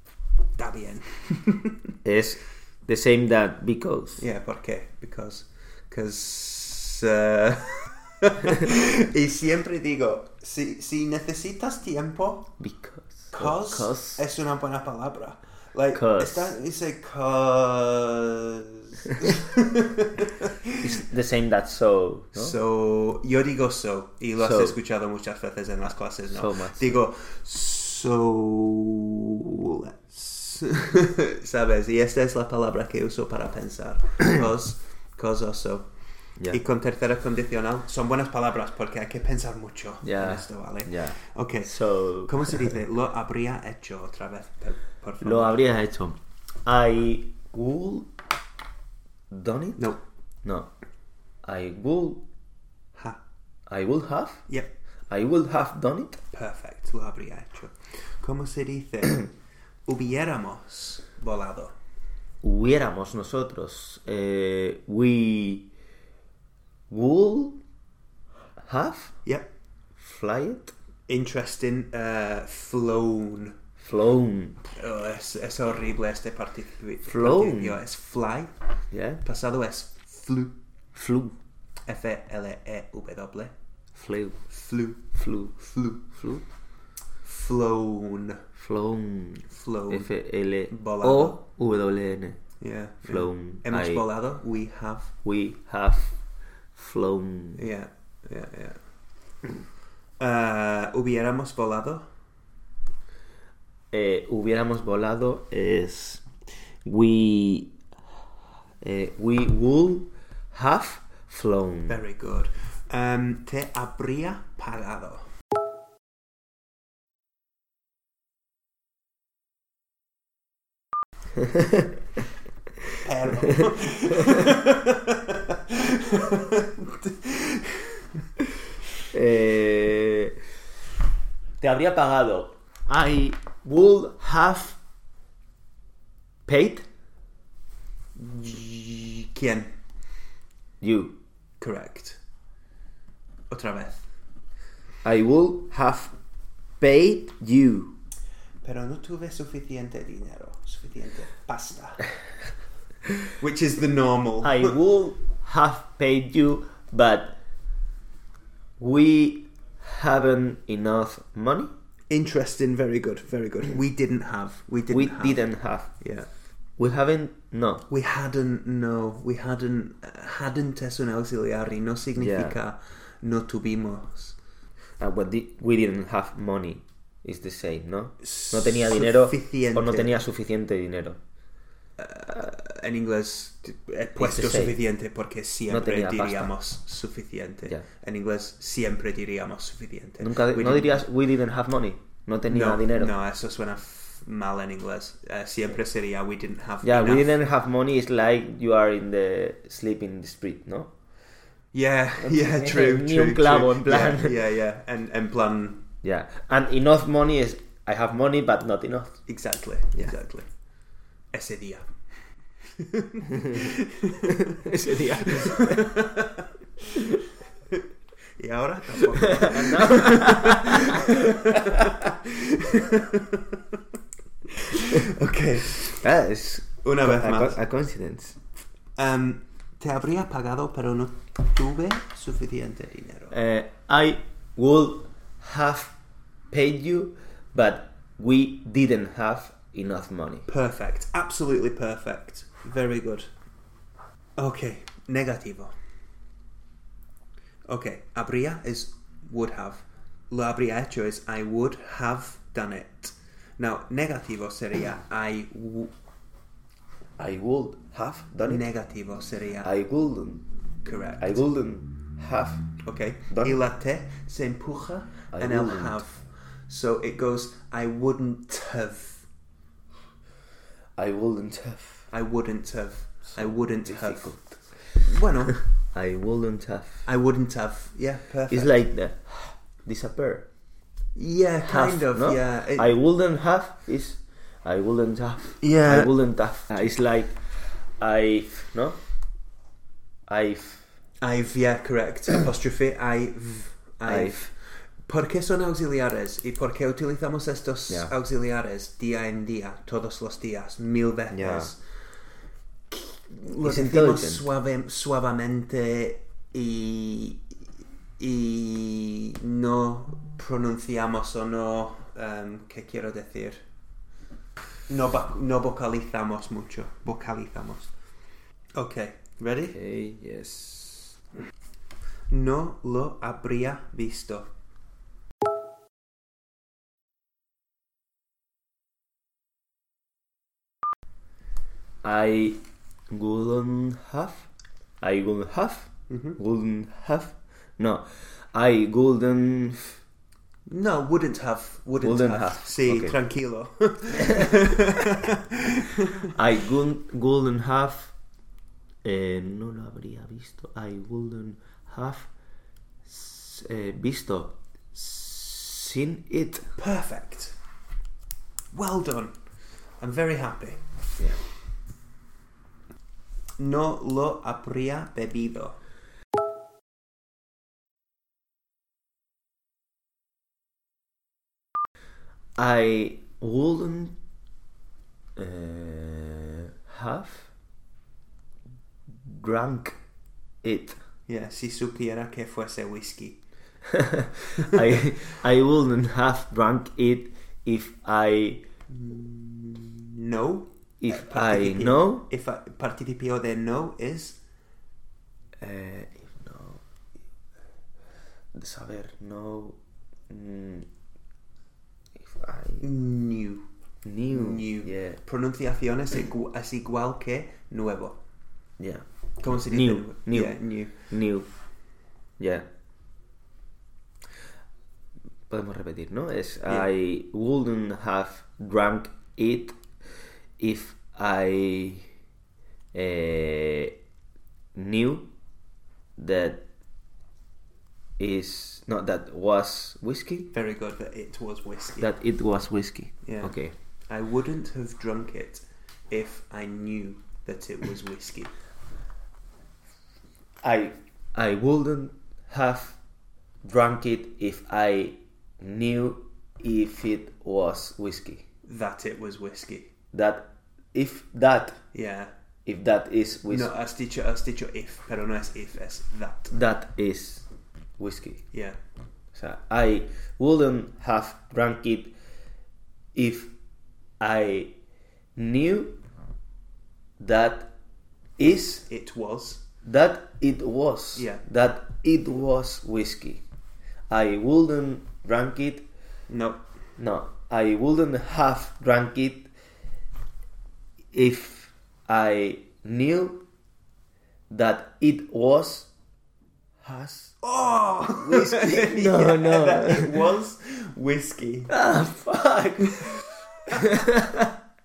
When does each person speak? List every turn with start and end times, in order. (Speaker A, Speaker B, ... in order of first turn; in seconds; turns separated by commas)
Speaker A: 0.6-1.9, Speaker B: 2.0-4.2, Speaker A: 4.2-12.6, Speaker B: 12.6-14.2, Speaker A: 13.3-20.8, Speaker B: 15.9-16.6, Speaker B: 20.8-22.6, Speaker A: 22.4-35.9, Speaker B: 24.4-24.8, Speaker B: 26.3-27.0, Speaker A: 36.5-45.6, Speaker B: 40.0-42.7, Speaker B: 45.2-48.1, Speaker B: 49.3-49.9, Speaker A: 49.8-50.0, Speaker B: 50.4-50.7, Speaker B: 51.4-52.3, Speaker A: 53.0-53.2, Speaker B: 53.7-54.5, Speaker B: 55.1-56.2, Speaker A: 56.3-59.3, Speaker A: 59.9-61.7, Speaker B: 62.4-65.7, Speaker B: 66.9-67.6, Speaker B: 68.6-69.2, Speaker B: 70.0-70.7, Speaker A: 71.1-73.5, Speaker B: 73.8-74.6, Speaker A: 74.8-78.5, Speaker B: 77.0-77.8, Speaker B: 78.9-79.2, Speaker A: 79.2-80.5, Speaker B: 81.0-81.4, Speaker A: 81.9-83.5, Speaker B: 84.0-84.4, Speaker A: 84.5-86.0, Speaker B: 85.2-86.4, Speaker A: 87.2-88.4, Speaker B: 88.6-92.4, Speaker A: 89.5-90.1, Speaker A: 90.7-91.4, Speaker A: 92.6-95.1, Speaker B: 93.0-94.0, Speaker B: 95.2-96.2, Speaker B: 96.7-97.7, Speaker A: 97.6-98.8, Speaker A: 100.2-102.0, Speaker B: 103.9-106.3, Speaker B: 106.8-107.8, Speaker B: 108.8-112.0, Speaker A: 111.9-115.2, Speaker A: 123.0-128.2, Speaker B: 129.1-130.4, Speaker B: 131.6-134.8, Speaker B: 136.5-136.9, Speaker A: 138.2-139.7, Speaker B: 140.8-141.2, Speaker A: 141.6-142.2, Speaker A: 143.5-144.1, Speaker B: 145.0-146.1, Speaker B: 146.8-147.9, Speaker A: 148.6-152.1, Speaker A: 153.4-154.8, Speaker B: 154.4-157.4, Speaker B: 158.8-161.7, Speaker A: 162.1-165.5, Speaker B: 164.9-166.0, Speaker A: 166.0-166.3, Speaker B: 166.8-167.8, Speaker A: 167.9-174.4, Speaker B: 172.2-172.6, Speaker B: 175.0-181.2, Speaker A: 178.2-180.2, Speaker A: 182.0-191.0, Speaker B: 184.2-184.8, Speaker B: 185.7-186.5, Speaker B: 190.2-193.1, Speaker A: 192.5-197.3, Speaker B: 196.8-200.9, Speaker A: 201.7-205.9, Speaker B: 202.2-204.4, Speaker B: 206.0-209.2, Speaker A: 209.3-210.5, Speaker A: 211.3-211.9, Speaker A: 212.8-217.0, Speaker B: 214.5-216.0, Speaker A: 218.4-223.6, Speaker B: 219.3-221.8, Speaker A: 224.5-226.0, Speaker B: 226.0-228.4, Speaker A: 226.8-227.6, Speaker A: 229.0-233.4, Speaker B: 233.3-235.9, Speaker B: 236.5-240.5, Speaker A: 240.5-243.3, Speaker A: 244.4-245.7, Speaker A: 247.7-255.9, Speaker B: 257.2-258.7, Speaker A: 258.5-259.7, Speaker B: 259.6-260.4, Speaker A: 260.8-261.4, Speaker B: 261.2-262.7, Speaker A: 262.8-269.3, Speaker B: 263.3-263.6, Speaker B: 265.3-266.0, Speaker B: 271.0-272.1, Speaker A: 272.1-274.4, Speaker B: 273.3-274.6, Speaker A: 275.0-275.6, Speaker B: 275.9-277.1, Speaker A: 277.1-278.8, Speaker B: 278.5-280.5, Speaker A: 281.1-283.0, Speaker B: 281.6-289.0, Speaker A: 285.6-286.1, Speaker B: 290.3-290.9, Speaker A: 291.2-301.8, Speaker B: 294.1-294.5, Speaker B: 301.3-301.7, Speaker A: 302.9-307.4, Speaker B: 303.6-304.5, Speaker A: 308.2-313.6, Speaker A: 314.9-317.9, Speaker A: 318.8-319.8, Speaker B: 319.7-321.1, Speaker A: 322.3-324.5, Speaker B: 332.0-334.5, Speaker B: 335.0-339.8, Speaker A: 336.1-336.4, Speaker A: 340.7-346.3, Speaker B: 342.0-343.2, Speaker B: 344.2-344.5, Speaker B: 346.3-348.1, Speaker B: 349.0-352.3, Speaker B: 353.1-356.7, Speaker A: 356.8-357.6, Speaker A: 358.7-359.4, Speaker A: 360.0-361.3, Speaker A: 363.6-365.8, Speaker B: 372.6-374.2, Speaker B: 375.4-377.5, Speaker B: 379.1-380.0, Speaker B: 380.6-381.0, Speaker A: 381.3-383.4, Speaker B: 383.9-388.6, Speaker A: 388.9-394.4, Speaker B: 391.0-392.3, Speaker B: 395.6-396.8, Speaker B: 398.5-399.8, Speaker B: 400.3-400.9, Speaker B: 402.2-402.9, Speaker A: 402.8-403.7, Speaker B: 404.1-405.2, Speaker A: 404.3-408.2, Speaker B: 408.8-411.5, Speaker A: 409.4-411.0, Speaker B: 412.4-412.7, Speaker B: 415.5-419.8, Speaker B: 420.6-422.1, Speaker B: 422.9-423.9, Speaker B: 424.8-425.3, Speaker B: 426.2-426.6, Speaker B: 428.2-430.5, Speaker A: 430.5-432.1, Speaker B: 432.0-433.7, Speaker A: 433.2-433.6, Speaker A: 434.1-438.5, Speaker B: 440.6-443.0, Speaker B: 443.6-448.4, Speaker A: 448.7-449.9, Speaker B: 450.1-451.8, Speaker A: 451.9-452.3, Speaker B: 452.7-453.7, Speaker A: 453.5-456.6, Speaker B: 456.5-457.4, Speaker B: 458.0-458.4, Speaker A: 458.5-458.8, Speaker B: 459.3-462.2, Speaker B: 463.1-463.5, Speaker B: 464.2-464.7, Speaker B: 465.4-466.0, Speaker B: 467.2-467.7, Speaker B: 468.4-468.9, Speaker A: 468.8-469.6, Speaker B: 469.8-473.4, Speaker A: 471.1-471.4, Speaker B: 474.1-475.9, Speaker A: 476.3-476.6, Speaker B: 477.0-479.5, Speaker B: 481.1-483.4, Speaker B: 484.5-485.9, Speaker B: 486.8-487.4, Speaker A: 487.4-491.8, Speaker B: 488.1-490.2, Speaker B: 491.7-494.6